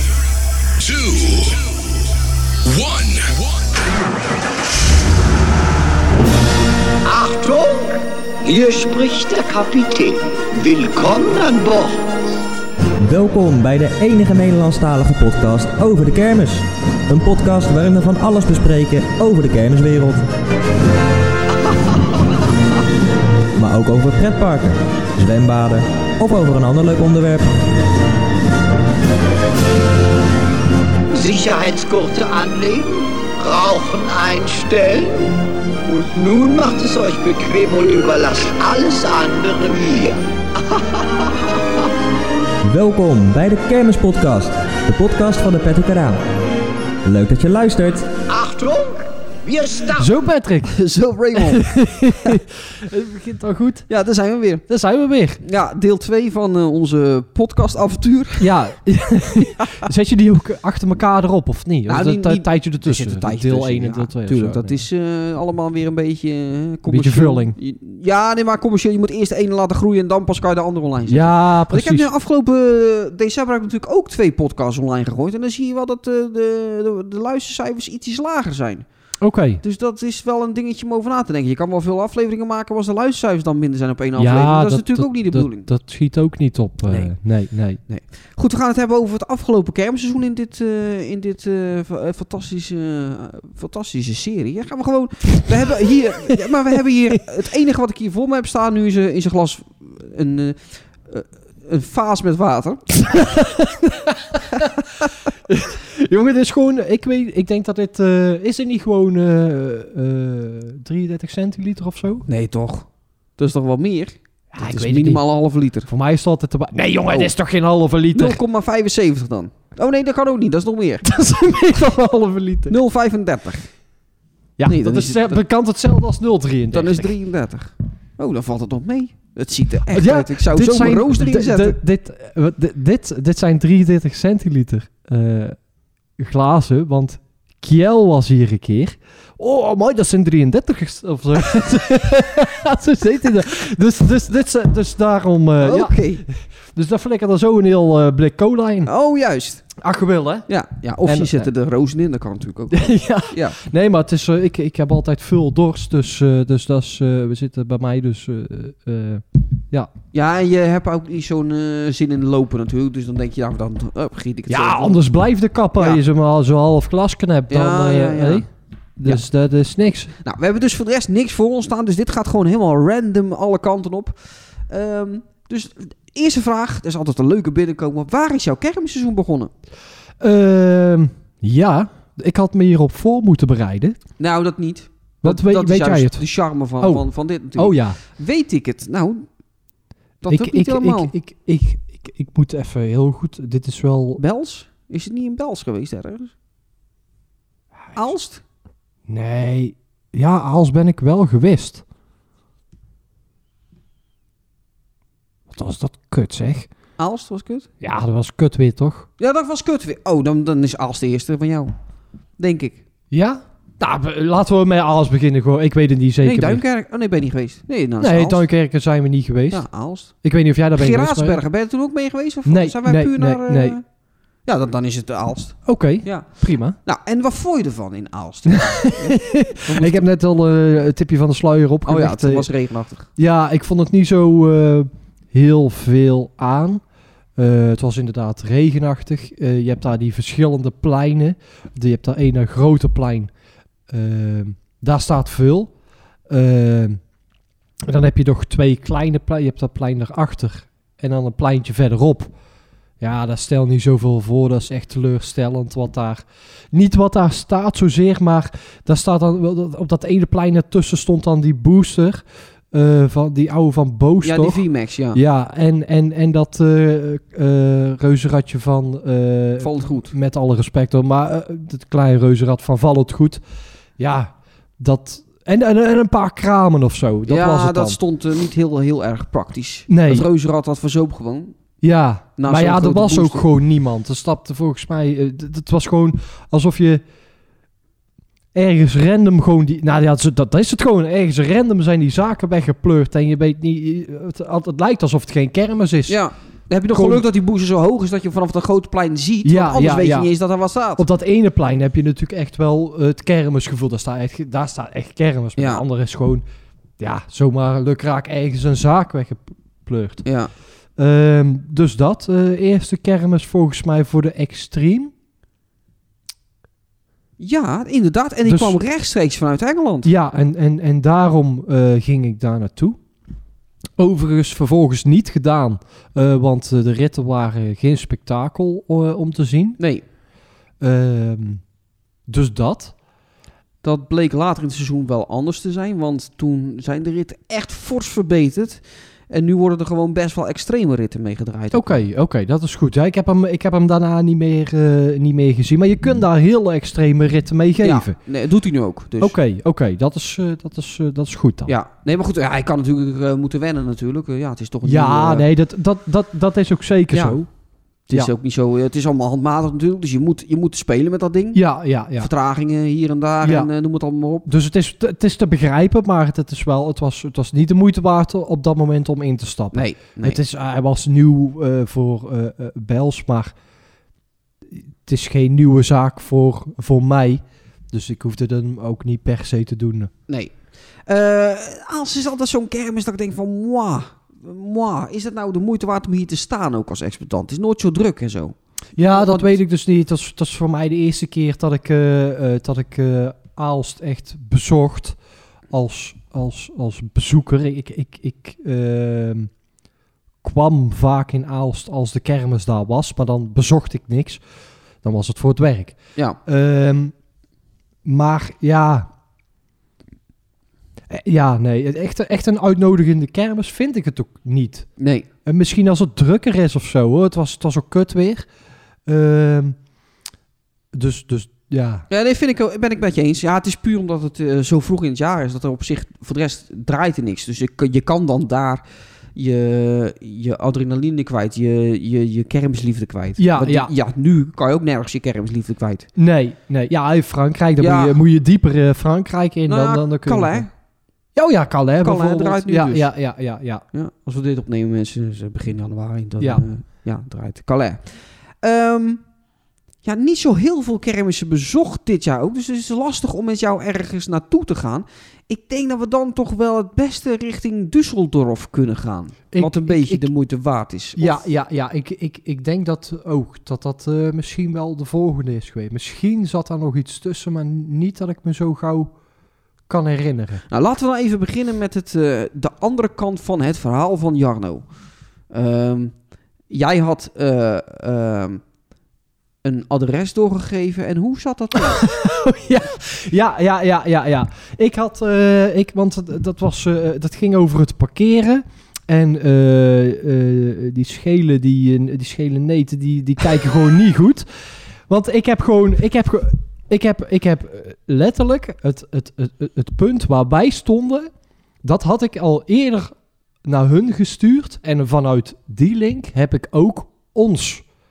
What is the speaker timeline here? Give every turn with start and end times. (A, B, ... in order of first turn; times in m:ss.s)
0:00.8-0:02.0 A
0:02.6-0:03.7 A
0:07.0-0:12.0 B
0:13.0-0:20.2 C
0:21.6-0:22.2 B
0:23.6-0:27.5 C
0:31.1-0:35.3 B
0:35.9-0:41.3 B
0:42.6-0:46.2 C
0:47.0-0:48.1 C
0:48.3-0:50.1 B
0:49.9-0:50.7 D
0:50.7-0:51.7 E
0:51.4-0:53.9 D
0:53.9-0:54.6 E
0:54.7-0:55.4 D
0:55.4-0:58.5 E
0:58.4-1:04.8 D
1:01.9-1:18.8 E
1:06.9-1:07.6 D
1:11.1-1:12.1 D
1:19.2-1:19.6 D
1:19.6-1:25.7 E
1:24.2-1:27.8 D
1:26.9-1:27.1 E
1:27.9-1:43.1 E
1:43.0-1:44.9 D
1:45.5-1:52.2 D
1:52.3-1:55.9 E
1:54.5-1:55.2 D
1:55.9-1:58.4 D
1:58.1-2:01.0 E
2:01.0-2:02.8 D
2:02.7-2:03.7 E
2:04.6-2:07.1 D
2:04.6-2:05.4 E
2:06.7-2:11.8 E
2:09.9-2:15.6 D
2:16.2-2:28.9 D
2:25.6-2:26.2 E
2:28.8-2:29.7 E
2:29.8-2:30.5 D
2:30.5-2:33.6 E
2:31.0-2:31.5 D
2:32.7-2:39.9 D
2:40.1-2:45.0 E
2:44.5-2:48.5 D
2:47.5-2:48.4 E
2:49.0-2:50.1 D
2:50.2-2:59.5 E
3:00.2-3:04.0 D
3:04.2-3:09.3 E
3:05.2-3:06.2 D
3:06.8-3:08.0 D
3:10.2-3:11.1 E
3:10.3-3:14.2 D
3:14.2-3:16.3 E
3:17.9-3:18.4 E
3:19.1-3:21.8 D
3:25.5-3:26.7 D
3:27.0-3:27.7 E
3:27.8-3:29.1 D
3:29.2-3:31.7 E
3:32.4-3:32.8 E
3:33.1-3:36.6 D
3:36.2-3:38.4 E
3:38.0-3:41.4 D
3:39.5-3:40.1 E
3:40.7-3:43.8 E
3:42.4-3:43.8 D
3:44.4-3:50.1 E
3:45.6-3:46.8 D
3:48.5-3:52.5 D
3:51.8-3:53.1 E
3:53.2-3:56.8 D
3:57.4-4:03.3 D
4:03.9-4:05.7 D
4:06.3-4:07.0 D
4:07.8-4:12.3 D
4:13.0-4:33.4 D
4:24.2-4:25.2 E
4:29.6-4:30.1 E
4:34.0-4:38.0 D
4:37.3-4:41.6 E
4:39.9-4:40.3 D
4:41.8-4:47.0 D
4:42.4-4:43.5 E
4:48.5-4:56.2 D
4:56.1-5:01.0 E
4:56.9-4:57.2 D
4:59.4-5:00.3 D
5:01.0-5:06.4 D
5:05.6-5:05.8 E
5:07.0-5:10.2 D
5:10.2-5:10.5 E
5:11.0-5:15.1 D
5:17.4-5:20.1 E
5:18.4-5:18.8 D
5:20.0-5:23.0 D
5:24.0-5:29.8 D
5:29.8-5:30.0 E
5:30.8-5:31.6 D
5:32.3-5:32.9 D
5:33.8-5:42.0 E
5:41.7-5:48.2 D
5:47.8-5:49.4 E
5:49.2-5:51.7 D
5:51.7-5:55.4 E
5:54.8-5:57.5 D
5:57.1-5:57.4 E
5:58.1-6:01.6 E
6:01.5-6:02.3 D
6:02.2-6:04.5 E
6:03.4-6:03.7 D
6:04.5-6:13.5 D
6:09.7-6:10.4 E
6:15.0-6:20.1 D
6:20.3-6:29.5 E
6:29.0-6:35.2 D
6:35.7-6:39.5 D
6:40.4-6:44.4 D
6:45.0-6:47.1 D
6:48.0-6:49.1 D
6:51.1-6:54.9 D
6:55.0-6:55.3 E
6:55.4-6:58.5 D
6:59.0-6:59.8 D
7:00.9-7:02.0 D
7:02.1-7:08.8 E
7:09.3-7:16.1 E
7:13.4-7:13.9 D
7:16.2-7:20.7 D
7:17.8-7:18.2 E
7:19.7-7:20.7 E
7:21.3-7:23.8 D
7:22.0-7:23.1 E
7:23.9-7:29.2 E
7:30.0-7:41.4 E
7:39.5-7:40.3 D
7:41.2-7:49.1 D
7:49.9-7:50.6 D
7:50.7-7:54.9 E
7:55.5-7:58.6 E
7:59.6-8:02.0 E
8:01.8-8:14.5 D
8:15.1-8:21.3 D
8:21.8-8:27.8 D